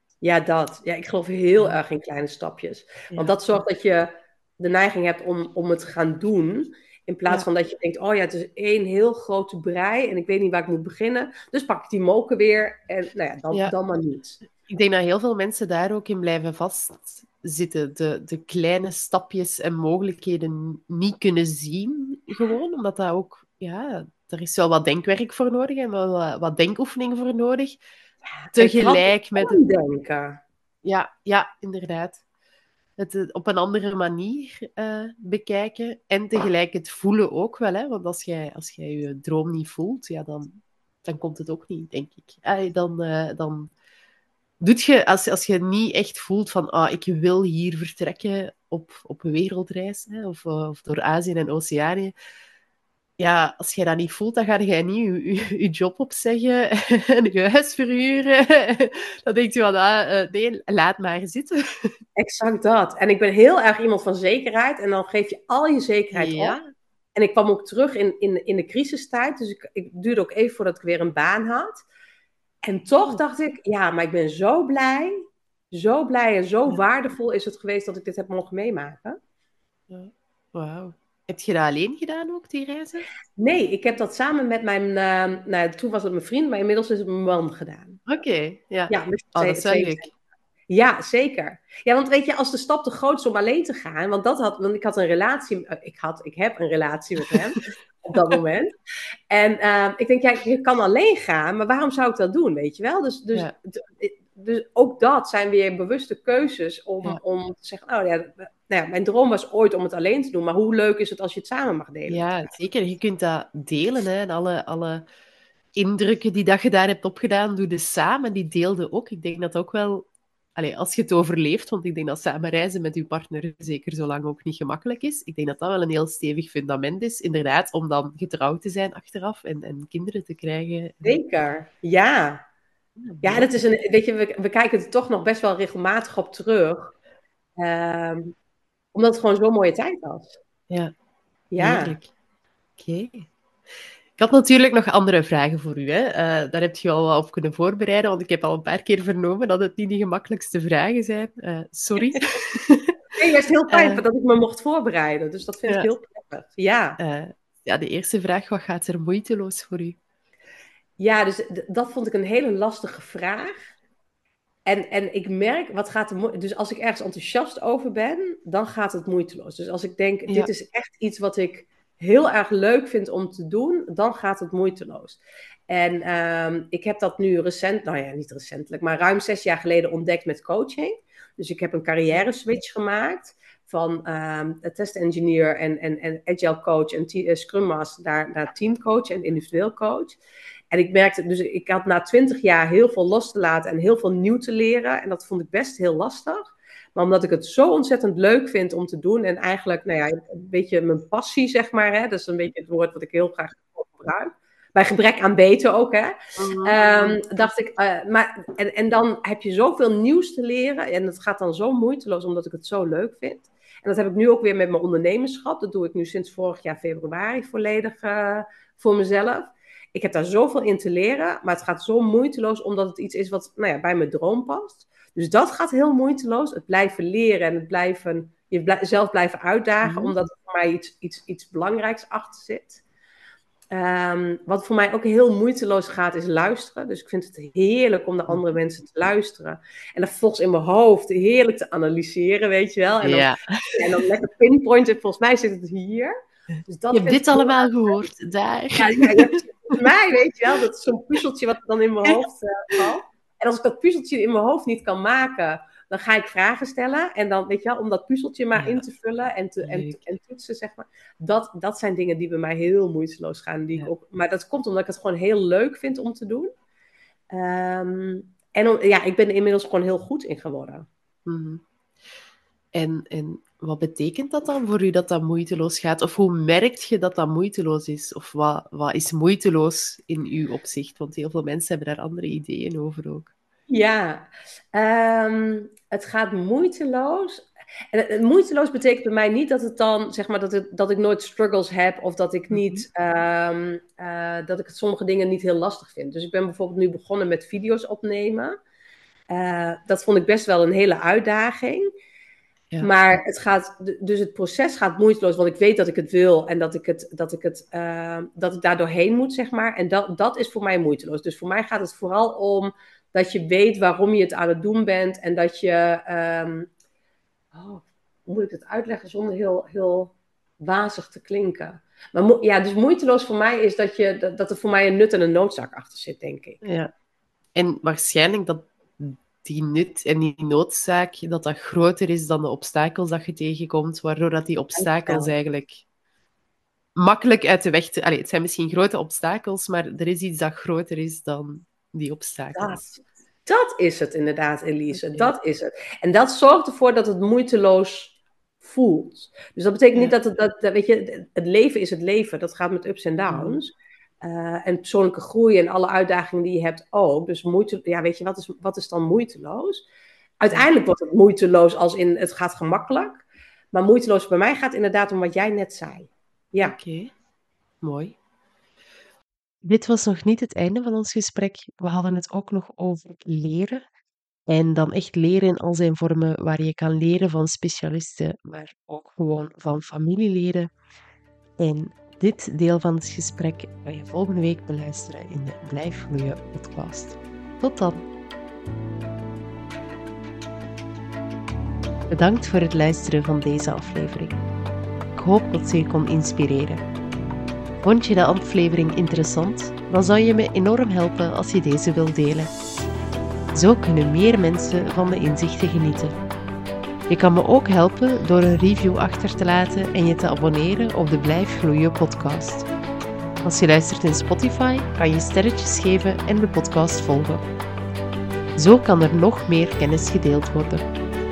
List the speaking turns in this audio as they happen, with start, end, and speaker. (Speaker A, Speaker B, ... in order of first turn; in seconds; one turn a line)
Speaker A: 0.2-14.4
Speaker B: 14.6-27.8
Speaker A: 28.4-30.4
Speaker B: 28.6-29.6
Speaker B: 30.8-32.2
Speaker B: 33.0-43.7
Speaker B: 44.6-52.1
Speaker B: 53.2-61.9
Speaker A: 62.2-66.6
Speaker B: 66.1-66.7
Speaker A: 67.2-71.8
Speaker A: 72.6-75.2
Speaker A: 75.7-79.2
Speaker B: 79.9-83.1
Speaker A: 83.4-88.0
Speaker B: 88.1-90.1
Speaker A: 88.9-90.1
Speaker A: 90.7-98.7
Speaker B: 97.3-97.7
Speaker A: 99.3-112.5
Speaker B: 112.1-115.0
Speaker B: 115.8-131.2
Speaker A: 131.0-132.4
Speaker B: 133.0-133.5
Speaker A: 133.2-136.9
Speaker A: 137.6-138.3
Speaker A: 138.9-140.4
Speaker A: 141.5-142.0
Speaker B: 141.6-142.1
Speaker B: 142.8-143.3
Speaker B: 144.2-153.0
Speaker A: 153.2-157.0
Speaker B: 153.7-154.0
Speaker B: 157.0-160.0
Speaker A: 161.0-163.7
Speaker A: 164.7-190.2
Speaker A: 190.7-232.8
Speaker B: 206.4-207.5
Speaker B: 229.8-230.1
Speaker A: 233.7-246.1
Speaker B: 243.0-244.0
Speaker A: 246.7-248.0
Speaker B: 246.9-249.8
Speaker A: 248.8-266.5
Speaker B: 258.6-258.8
Speaker B: 259.6-260.0
Speaker A: 267.3-270.9
Speaker B: 271.3-271.6
Speaker B: 272.8-283.3
Speaker A: 283.7-298.6
Speaker B: 292.5-292.9
Speaker A: 299.3-301.9
Speaker A: 302.8-316.7
Speaker A: 317.5-326.6
Speaker B: 326.6-326.9
Speaker B: 327.6-335.8
Speaker A: 334.8-335.3
Speaker B: 337.0-342.9
Speaker A: 342.6-359.9
Speaker B: 344.9-345.3
Speaker B: 353.3-353.6
Speaker A: 360.4-366.8
Speaker B: 366.6-367.1
Speaker B: 367.8-368.2
Speaker B: 369.6-373.9
Speaker B: 374.5-380.7
Speaker B: 381.6-388.1
Speaker B: 392.1-394.4
Speaker B: 395.1-396.8
Speaker B: 397.8-402.5
Speaker B: 403.5-406.1
Speaker B: 407.1-412.7
Speaker B: 413.4-417.4
Speaker B: 418.6-420.9